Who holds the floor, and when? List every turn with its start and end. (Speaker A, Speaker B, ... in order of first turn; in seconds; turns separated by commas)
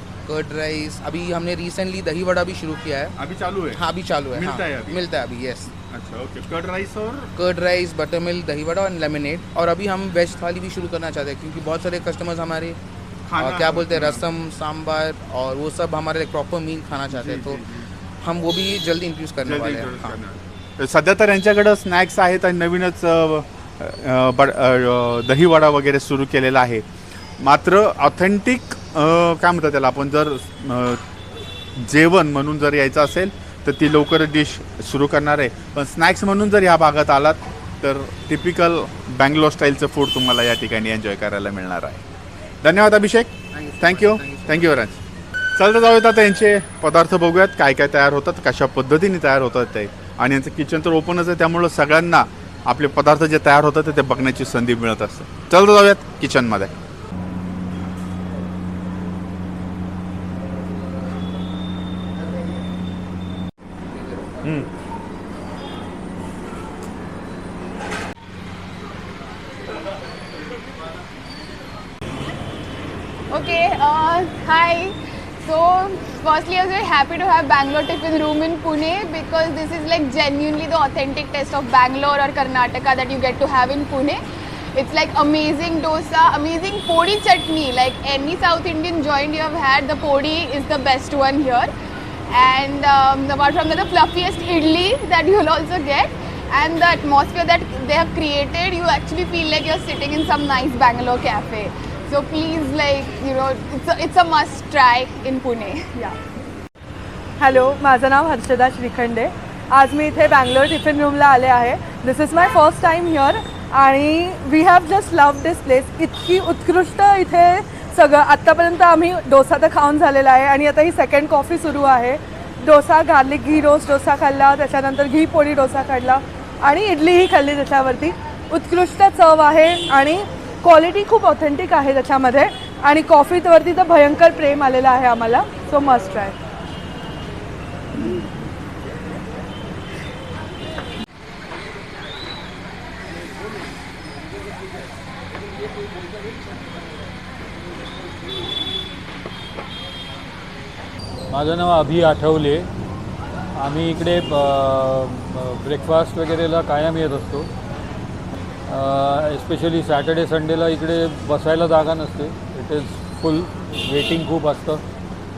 Speaker A: 0.3-3.1, Speaker B: 3.2-3.8, Speaker A: 3.7-5.7, Speaker B: 4.3-5.0, Speaker B: 5.8-7.3, Speaker A: 7.4-12.8, Speaker B: 13.3-14.2, Speaker A: 13.4-17.6, Speaker B: 17.1-17.8, Speaker A: 18.2-20.2, Speaker B: 19.4-26.9, Speaker B: 27.4-31.0, Speaker B: 31.8-42.0, Speaker B: 42.6-45.0, Speaker A: 43.5-44.8, Speaker B: 45.6-56.7, Speaker B: 64.4-64.7, Speaker C: 73.3-74.9, Speaker C: 75.5-84.2, Speaker C: 84.8-91.7, Speaker C: 92.3-105.9, Speaker D: 107.4-136.3, Speaker E: 151.3-152.7, Speaker E: 153.6-157.5, Speaker E: 158.7-164.8